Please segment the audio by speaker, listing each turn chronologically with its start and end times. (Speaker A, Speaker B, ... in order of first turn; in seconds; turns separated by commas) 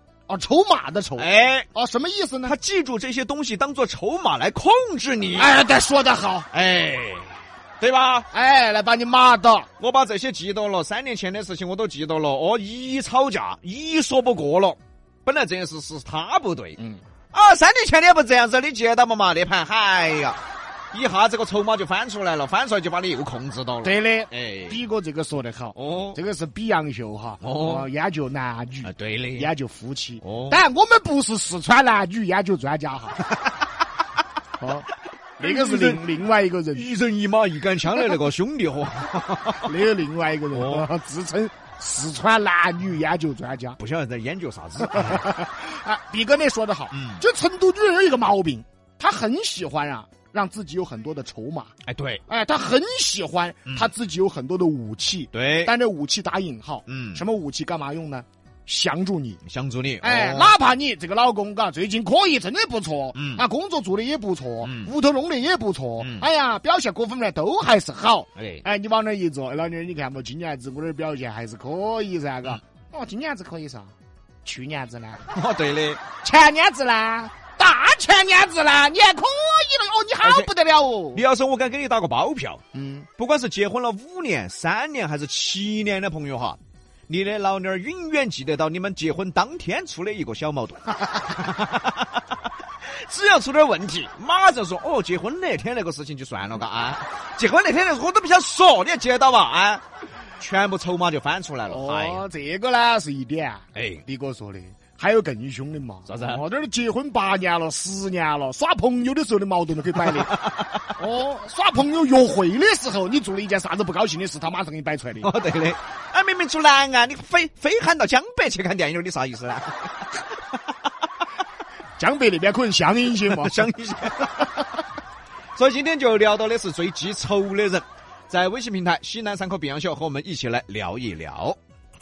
Speaker A: 0.3-2.5, Speaker B: 1.2-1.7, Speaker B: 2.5-5.5, Speaker A: 5.3-6.5, Speaker B: 6.5-8.3, Speaker A: 8.3-9.7, Speaker B: 9.8-16.8, Speaker A: 16.8-17.0, Speaker B: 17.3-20.4, Speaker B: 20.9-24.8, Speaker A: 23.8-33.2, Speaker B: 25.8-26.2, Speaker B: 27.4-27.9, Speaker B: 28.8-29.5, Speaker B: 30.2-30.6, Speaker A: 34.6-34.9, Speaker B: 35.4-36.1, Speaker A: 35.4-36.9, Speaker B: 36.7-39.7, Speaker A: 39.6-43.8, Speaker B: 40.5-40.9, Speaker B: 43.8-45.2, Speaker A: 44.8-51.7, Speaker B: 46.9-47.2, Speaker B: 51.9-52.2, Speaker A: 52.3-59.4, Speaker B: 55.3-55.7, Speaker B: 56.9-57.2, Speaker B: 59.4-60.5, Speaker A: 60.0-73.9, Speaker B: 63.1-63.4, Speaker B: 64.6-64.9, Speaker B: 66.0-66.2, Speaker B: 68.4-68.6, Speaker A: 74.4-75.3, Speaker B: 75.3-76.0, Speaker A: 76.2-81.2, Speaker B: 80.2-80.5, Speaker B: 81.1-82.6, Speaker A: 82.7-83.1, Speaker B: 83.2-92.2, Speaker B: 92.8-99.8, Speaker B: 100.4-102.2, Speaker A: 101.7-110.3, Speaker B: 103.8-104.0, Speaker B: 106.1-106.4, Speaker B: 110.0-110.9, Speaker A: 111.0-115.3, Speaker B: 115.2-120.2, Speaker A: 122.0-123.7, Speaker B: 123.2-124.7, Speaker B: 125.5-131.6